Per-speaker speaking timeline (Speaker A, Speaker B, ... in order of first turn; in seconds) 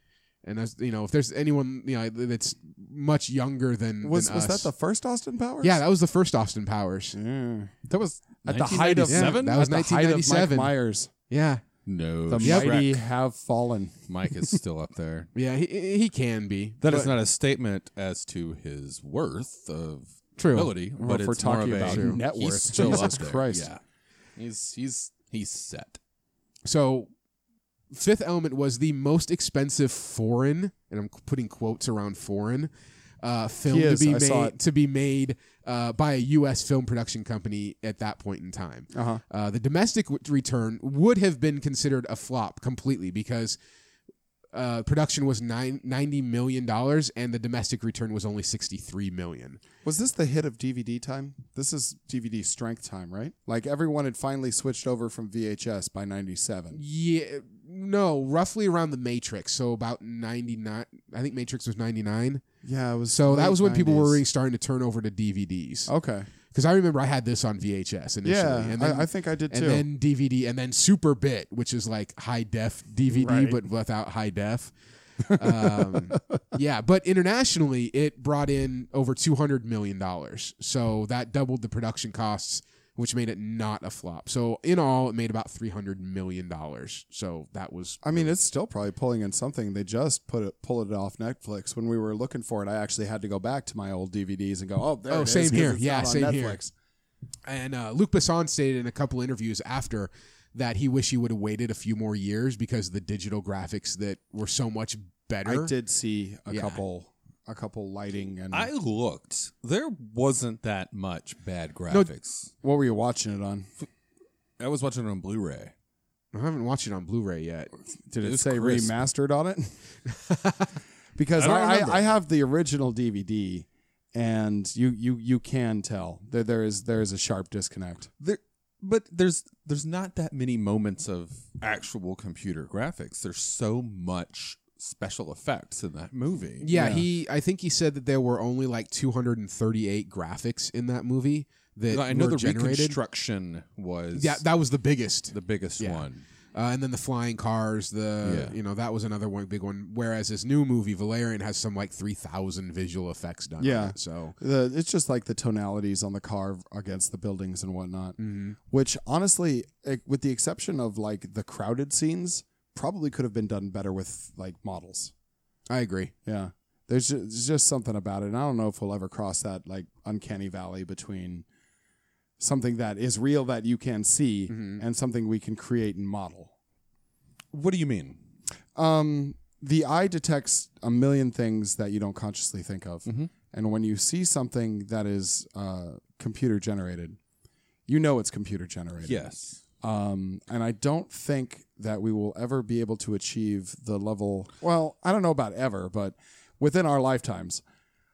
Speaker A: 0.4-4.7, 5.6-7.2, 9.1-10.8, 11.3-11.6, 12.4-12.7, 15.3-17.1, 20.4-20.7, 21.8-22.2, 22.8-23.2, 26.6-27.1, 27.9-32.7, 33.2-43.6, 44.5-49.6, 56.7-62.4, 63.1-65.9, 66.5-74.7, 75.3-88.3, 95.1-96.6, 97.5-105.7, 106.5-106.8, 116.3-117.7, 120.1-120.7, 136.6-143.0, 144.2-154.4, 158.2-158.6, 165.7-166.1, 174.5-174.8
Speaker B: 4.0-5.8, 7.2-11.1, 12.3-14.0, 21.0-23.7, 33.7-34.6, 38.9-39.2, 49.8-56.8, 62.6-64.2, 65.9-66.3, 68.2-69.8, 73.1-73.6, 75.3-76.2, 88.0-96.7, 105.5-108.7, 112.6-113.7, 118.1-119.8, 121.2-128.1, 136.7-137.1, 153.6-165.1, 166.2-171.4, 172.4-176.5, 178.8-187.2, 187.9-189.3, 189.8-197.6
Speaker C: 8.4-9.6, 11.9-13.0, 14.1-15.3, 16.8-23.8, 24.4-26.0, 108.5-112.5, 114.6-115.7, 118.2-118.9, 121.4-122.0, 128.2-136.7, 141.9-144.4, 145.3-146.2, 148.2-148.6, 177.5-178.2, 183.1-183.3, 189.0-189.6